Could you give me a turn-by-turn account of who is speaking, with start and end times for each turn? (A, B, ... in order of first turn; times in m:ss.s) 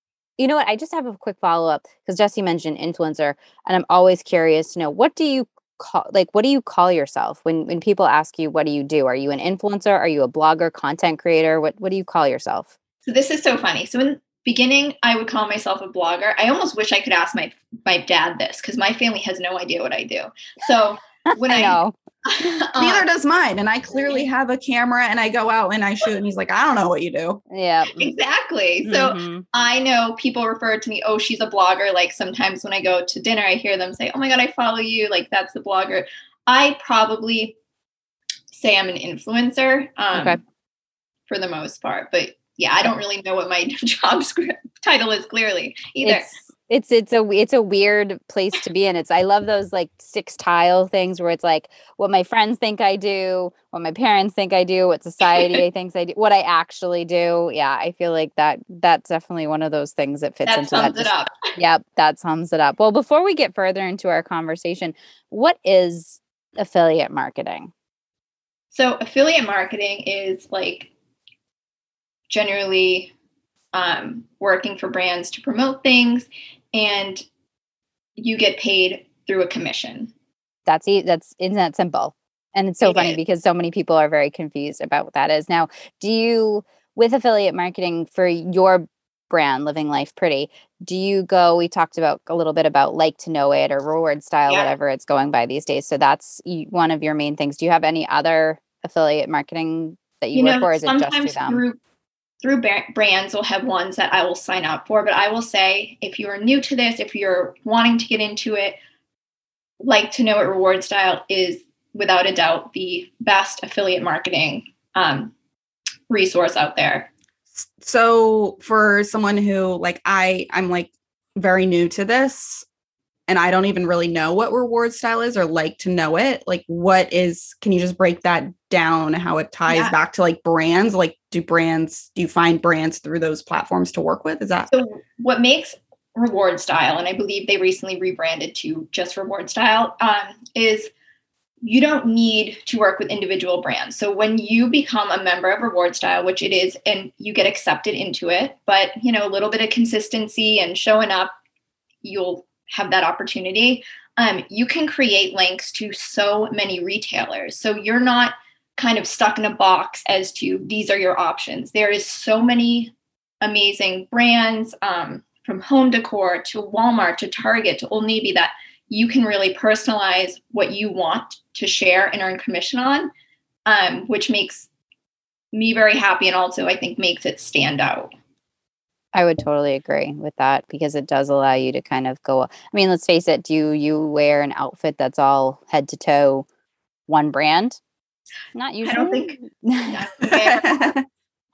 0:00.4-0:12.7 A
0:13.0-0:23.0 B
0:21.3-0:21.9 A
0:22.8-0:27.4 C
0:27.5-0:28.1 A
0:28.0-0:37.6 B
0:28.8-0:29.4 A
0:38.5-0:40.4 B
0:40.1-0:40.4 A
0:41.3-0:46.3 B
0:46.0-1:07.7 A
0:55.2-0:55.6 B
1:00.4-1:01.4 B
1:08.7-1:10.9 B
1:12.3-1:13.1 B
1:13.7-1:17.2 B
1:18.2-1:20.1 B
1:20.6-1:41.6 A
1:22.8-1:23.2 B
1:34.5-1:34.7 B
1:40.3-1:41.8 B
1:42.4-1:48.8 B
1:49.8-1:55.3 B
1:56.1-1:57.1 B
1:57.5-2:02.6 C
2:03.3-2:14.7 C
2:09.7-2:09.9 B
2:14.7-2:20.9 B
2:21.6-2:31.3 B
2:32.0-2:53.1 B
2:53.6-2:54.7 B
2:55.5-2:58.1 B
2:59.1-3:06.4 A
3:07.1-3:07.8 A
3:08.5-3:10.0 A
3:08.8-3:10.9 B
3:10.3-3:11.0 C